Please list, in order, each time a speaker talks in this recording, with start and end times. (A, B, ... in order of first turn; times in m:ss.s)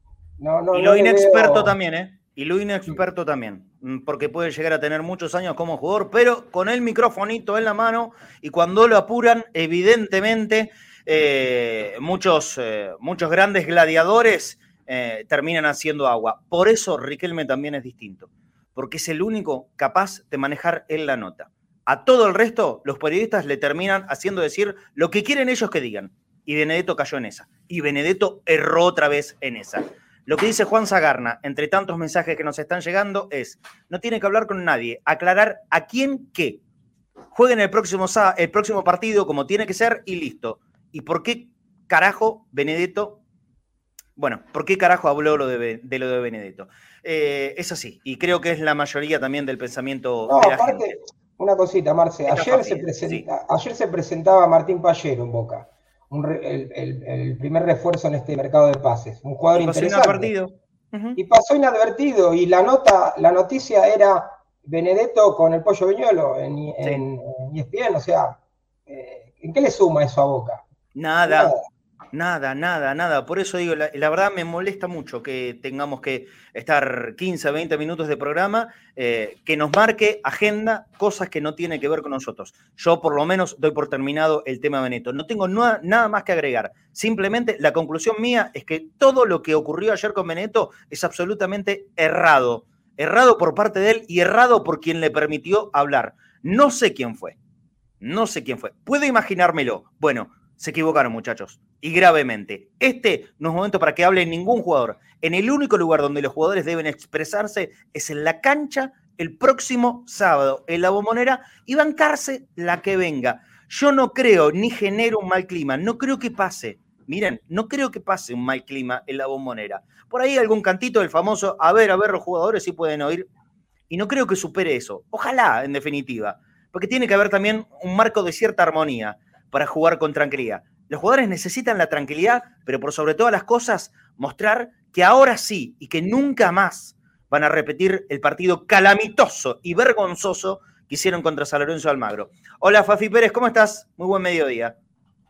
0:00.4-0:01.7 A
0:00.7-0:36.6 B
0:37.3-0:43.2 B
0:44.2-0:51.0 B
0:50.3-1:00.3 A
0:52.3-0:53.2 B
0:59.5-1:01.2 B
1:01.2-1:08.4 A
1:08.9-1:10.6 A
1:10.9-1:11.5 B
1:11.2-1:11.6 A
1:12.1-1:37.4 B
1:38.0-2:03.3 B
2:03.9-2:24.8 B